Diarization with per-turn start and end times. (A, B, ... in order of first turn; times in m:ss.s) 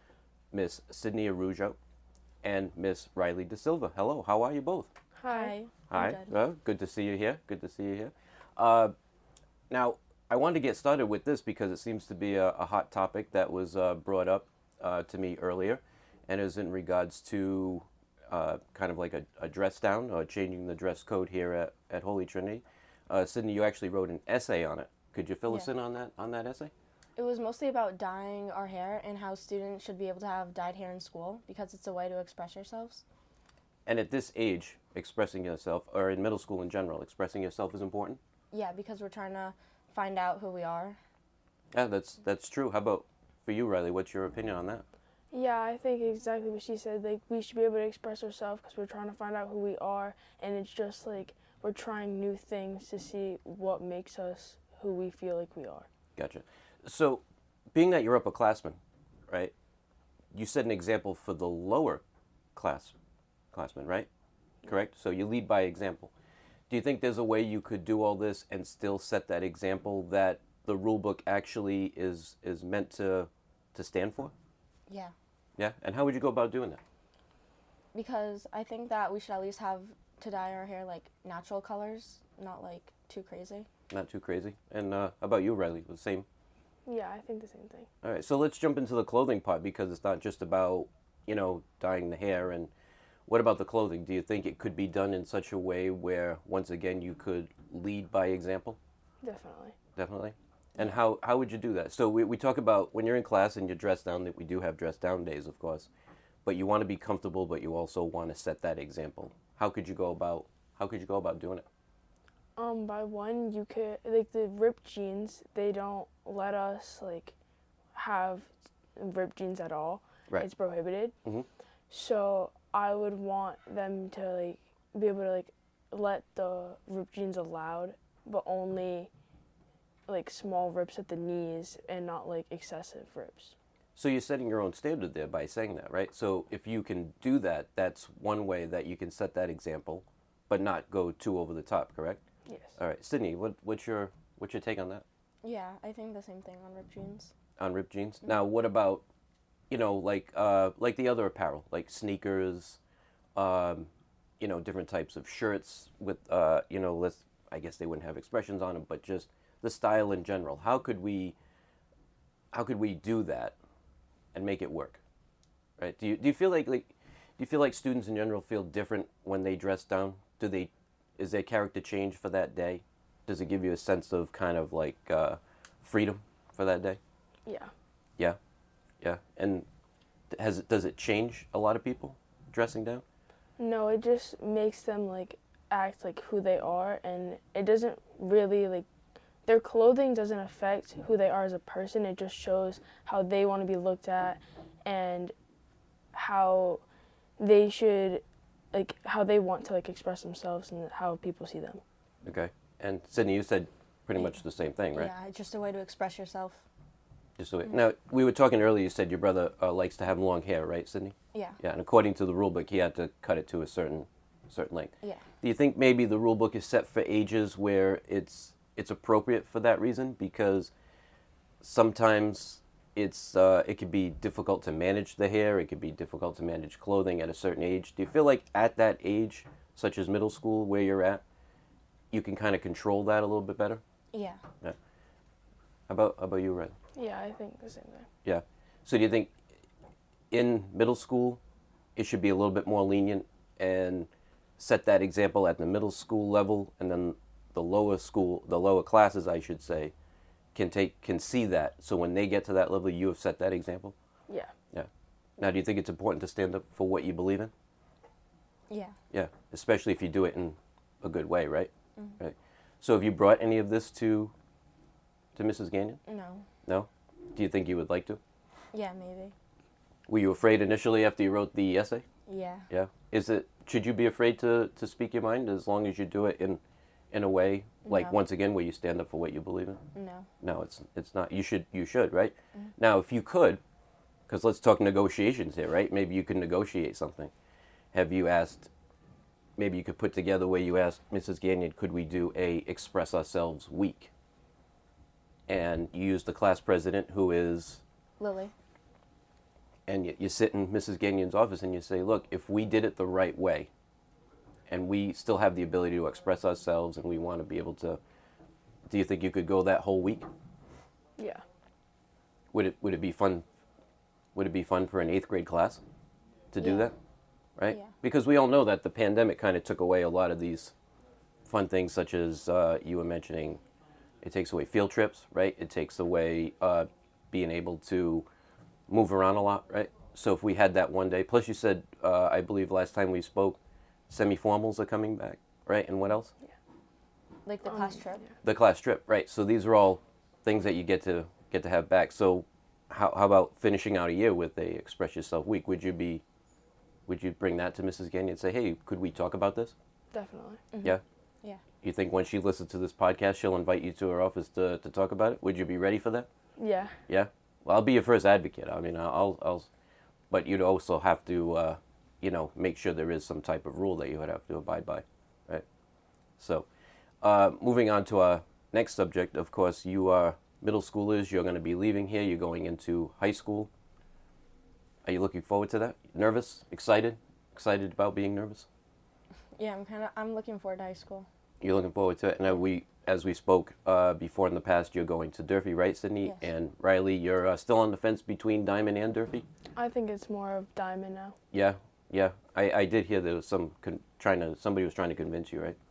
0:00.5-0:01.8 A
0:02.4-0:04.9 A
0:05.2-0:05.6 B
0:05.3-0:06.3 C
0:05.9-0:08.9 A
0:09.7-0:26.7 A
0:27.2-0:33.0 C
0:33.8-0:38.2 A
0:38.5-0:41.0 C
0:41.7-0:44.8 A
0:45.3-0:55.9 B
0:56.2-0:57.2 A
0:57.7-0:59.5 A
1:00.3-1:02.0 A
1:02.5-1:02.9 A
1:03.5-1:04.1 A
1:04.6-1:06.1 A
1:06.7-1:14.3 A
1:14.9-1:15.1 C
1:15.6-1:16.8 A
1:17.9-1:23.7 C
1:23.9-1:26.2 A
1:26.8-1:27.9 B
1:28.0-1:32.7 A
1:33.3-1:38.8 A
1:39.2-1:39.7 B
1:40.0-1:45.9 A
1:46.4-1:51.6 A
1:52.6-1:57.3 B
1:57.9-2:01.1 B
2:01.9-2:09.1 B
2:10.1-2:13.5 B
2:14.0-2:22.2 A
2:22.4-2:22.8 B
2:22.8-2:25.0 A
2:25.4-2:27.3 C
2:27.6-2:29.0 A
2:29.7-2:32.8 A
2:33.4-2:41.4 A
2:42.5-2:43.6 A
2:44.3-2:45.0 A
2:45.8-2:57.0 A
2:57.4-2:57.7 B
2:59.0-2:59.6 A
3:00.3-3:03.0 A
3:03.6-3:08.8 B
3:09.4-3:15.3 B
3:16.1-3:16.8 B
3:17.4-3:21.8 B
3:22.2-3:25.1 A
3:24.9-3:26.6 C
3:27.4-3:40.7 A
3:31.3-3:31.6 C
3:41.6-3:51.2 A
3:52.1-3:53.8 A
3:54.1-3:54.4 C
3:55.9-3:56.7 A
3:56.9-3:58.1 B
3:58.2-3:59.3 A
4:00.3-4:01.4 A
4:02.0-4:09.9 A
4:10.5-4:13.9 A
4:14.7-4:17.5 A
4:18.7-4:19.0 C
4:19.1-4:24.3 A
4:25.3-4:26.0 A
4:26.0-4:26.5 C
4:26.6-4:28.2 A
4:28.7-4:29.3 C
4:30.1-4:32.0 A
4:32.3-4:32.7 C
4:32.7-4:36.6 A
4:37.1-4:39.8 A
4:37.8-4:38.2 C
4:39.9-4:40.3 C
4:40.4-4:43.6 A
4:44.3-4:47.3 A
4:47.9-4:48.7 A
4:49.6-4:54.1 A
4:55.5-4:57.8 A
4:58.2-4:58.5 C
4:59.9-5:03.7 A
5:04.7-5:08.0 A
5:08.9-5:10.2 A
5:11.2-5:11.4 B
5:12.5-5:13.4 A
5:14.3-5:15.8 A
5:16.5-5:16.9 A
5:16.6-5:16.9 C
5:17.6-5:20.7 A
5:21.4-5:23.6 A
5:24.2-5:28.2 A
5:28.9-5:36.3 A
5:37.4-5:38.2 C
5:38.4-5:46.2 A
5:47.1-5:49.7 A
5:50.1-5:50.6 B
5:50.7-5:51.6 C
5:51.8-5:56.3 A
5:56.6-5:57.0 B
5:57.1-5:59.7 A
6:00.3-6:05.6 A
6:06.4-6:06.7 A
6:07.2-6:13.7 A
6:15.0-6:18.6 A
6:19.6-6:21.3 C
6:21.6-6:29.4 A
6:26.2-6:26.5 C
6:29.8-6:31.3 B
6:31.5-6:35.8 A